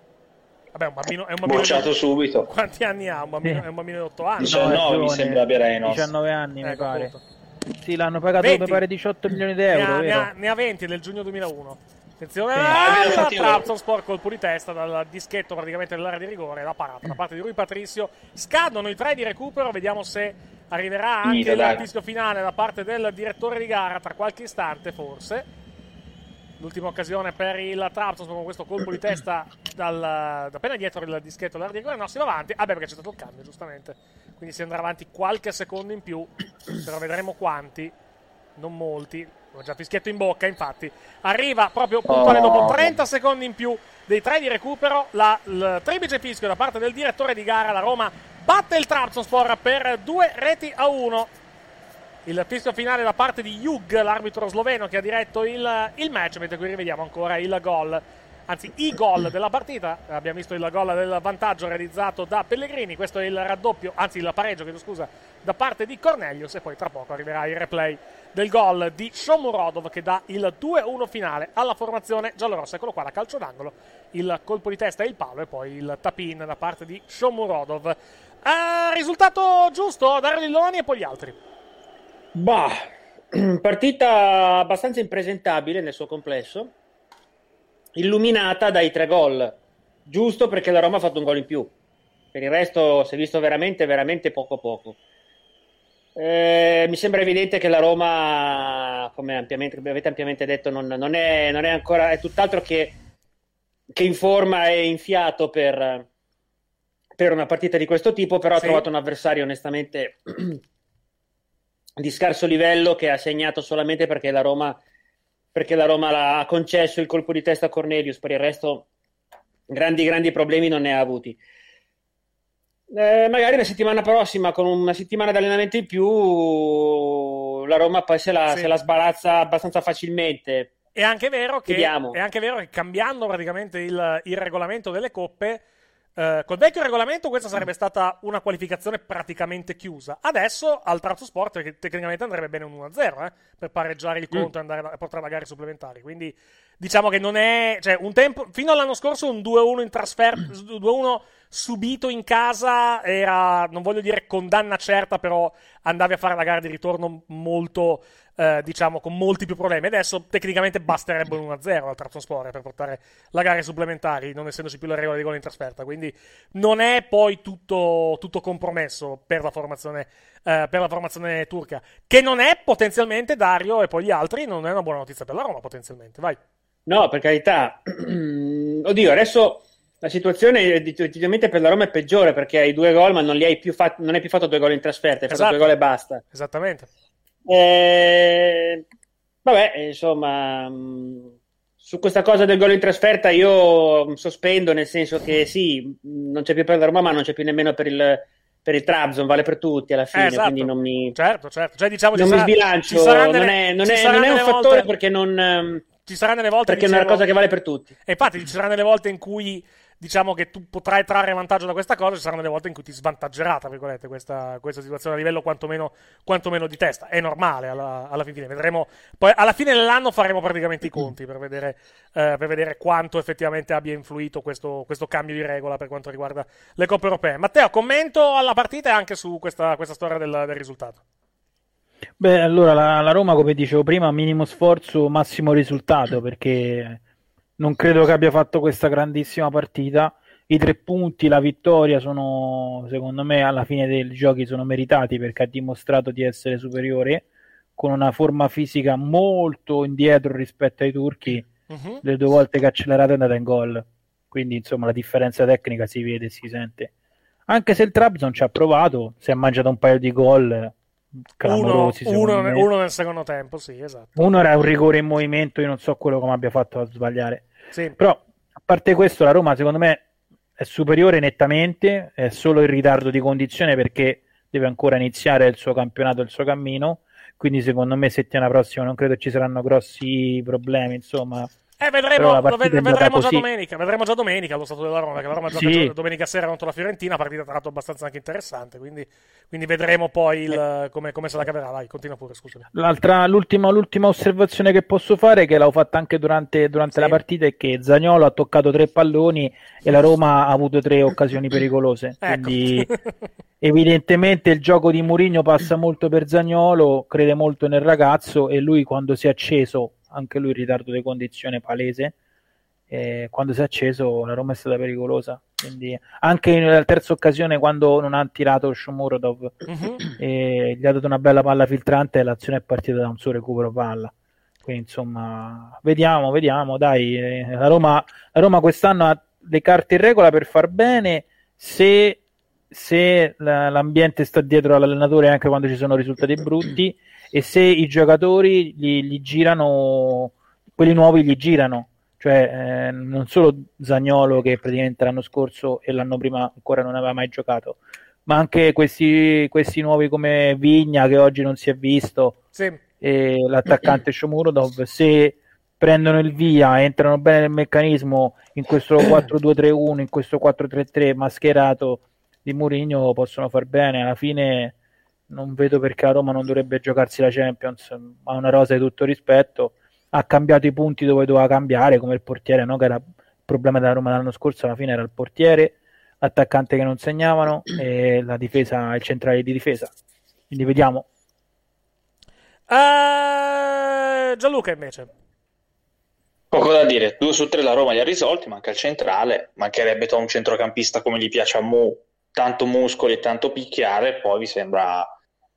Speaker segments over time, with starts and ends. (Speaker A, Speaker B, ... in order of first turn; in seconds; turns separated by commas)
Speaker A: 0.7-1.9, Speaker B: 1.4-2.5, Speaker A: 2.5-4.8, Speaker B: 4.4-6.1, Speaker C: 4.4-7.1, Speaker A: 6.6-7.2, Speaker C: 7.8-10.3, Speaker A: 8.4-8.8, Speaker A: 9.7-25.5, Speaker C: 12.5-13.1, Speaker B: 12.7-13.7, Speaker B: 21.2-21.8, Speaker A: 26.6-37.9, Speaker A: 38.5-51.3, Speaker B: 42.1-43.0, Speaker A: 52.2-81.4, Speaker D: 82.3-86.7, Speaker D: 88.0-91.7, Speaker D: 92.3-95.0, Speaker D: 96.2-103.0, Speaker D: 103.9-106.0, Speaker D: 107.2-110.6, Speaker A: 108.6-108.8, Speaker D: 112.0-114.8, Speaker D: 115.5-118.8, Speaker D: 119.7-121.4, Speaker D: 122.9-130.7, Speaker A: 128.5-128.8, Speaker A: 130.9-135.6, Speaker D: 131.7-132.2, Speaker A: 136.2-176.4, Speaker D: 176.9-186.2, Speaker A: 185.3-185.7, Speaker A: 186.3-186.9, Speaker D: 187.4-188.8, Speaker D: 189.4-201.2, Speaker A: 200.1-204.9, Speaker D: 202.1-205.9, Speaker A: 206.1-207.2, Speaker D: 206.7-207.9, Speaker A: 208.1-231.0, Speaker C: 232.2-237.0, Speaker C: 237.6-247.2, Speaker C: 247.8-251.5, Speaker A: 251.7-252.0, Speaker C: 252.0-256.9, Speaker C: 257.5-260.7, Speaker C: 261.4-262.7, Speaker A: 261.4-264.1, Speaker C: 264.1-270.0, Speaker C: 270.6-281.5, Speaker A: 281.8-292.7, Speaker C: 282.2-283.4, Speaker C: 285.5-285.9, Speaker C: 292.7-302.9, Speaker A: 302.2-303.1, Speaker C: 303.6-312.1, Speaker C: 312.9-324.1, Speaker A: 319.7-320.0, Speaker C: 324.6-332.2, Speaker C: 332.7-352.4, Speaker A: 352.5-352.8, Speaker C: 353.0-364.7, Speaker C: 365.3-379.9, Speaker C: 380.5-381.1, Speaker A: 382.7-385.1, Speaker B: 386.5-395.1